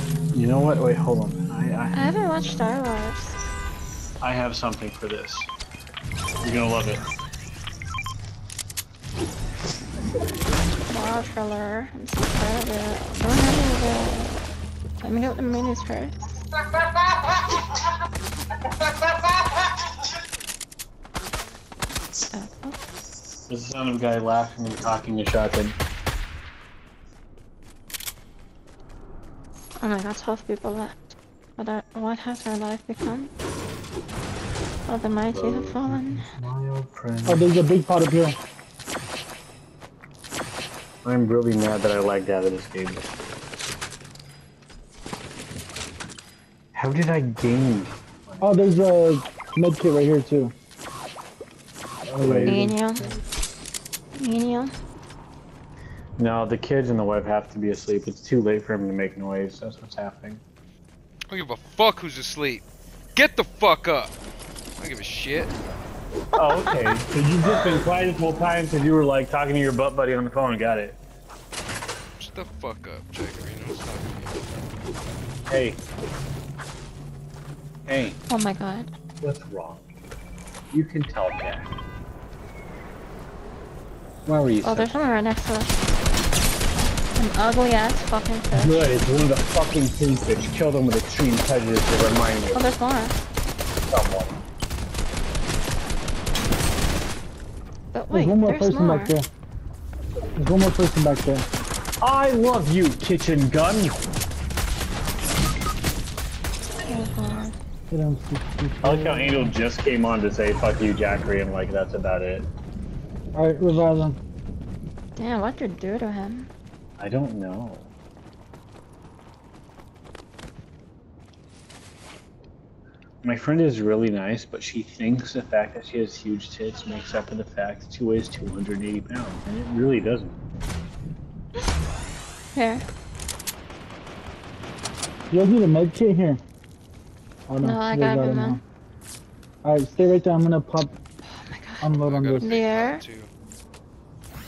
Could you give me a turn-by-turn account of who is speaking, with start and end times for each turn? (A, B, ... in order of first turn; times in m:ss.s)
0:00.3-0:02.0 A
0:01.9-0:03.4 B
0:04.2-0:05.5 A
0:06.4-0:07.0 A
0:10.9-0:14.3 B
0:15.0-0:16.4 B
0:22.3-0:22.8 B
0:23.5-0:25.8 A
0:29.8-0:33.3 B
0:34.9-0:36.2 B
0:35.3-0:37.5 A
0:37.3-0:38.4 C
0:41.0-0:43.0 A
0:46.7-0:48.6 A
0:48.4-0:50.5 C
0:52.0-0:53.2 C
0:52.2-0:52.6 A
0:52.5-0:53.1 B
0:54.1-0:54.7 B
0:56.2-1:00.4 A
1:01.3-1:02.6 D
1:03.1-1:04.1 D
1:04.8-1:05.5 D
1:06.4-1:11.0 A
1:06.4-1:06.9 B
1:12.2-1:14.5 D
1:15.5-1:15.8 A
1:17.9-1:18.2 A
1:18.3-1:18.9 B
1:19.2-1:19.8 A
1:20.7-1:21.7 A
1:24.2-1:24.9 A
1:24.6-1:25.7 B
1:27.2-1:29.0 B
1:28.5-1:32.6 A
1:32.5-1:33.2 B
1:33.9-1:34.4 A
1:37.9-1:39.2 B
1:38.1-1:39.3 C
1:40.4-1:41.4 C
1:42.0-1:44.0 A
1:46.8-1:47.5 B
1:47.9-1:49.5 C
1:48.8-1:52.5 A
1:53.3-1:54.2 C
1:55.2-1:56.5 B
1:57.0-1:57.9 A
2:03.2-2:10.4 A
2:12.5-2:12.8 B
2:15.3-2:16.4 C
2:17.5-2:18.6 C
2:17.6-2:18.6 B
2:19.6-2:21.0 C
2:21.2-2:21.9 B
2:21.8-2:22.6 C
2:21.9-2:23.3 D
2:22.4-2:23.0 B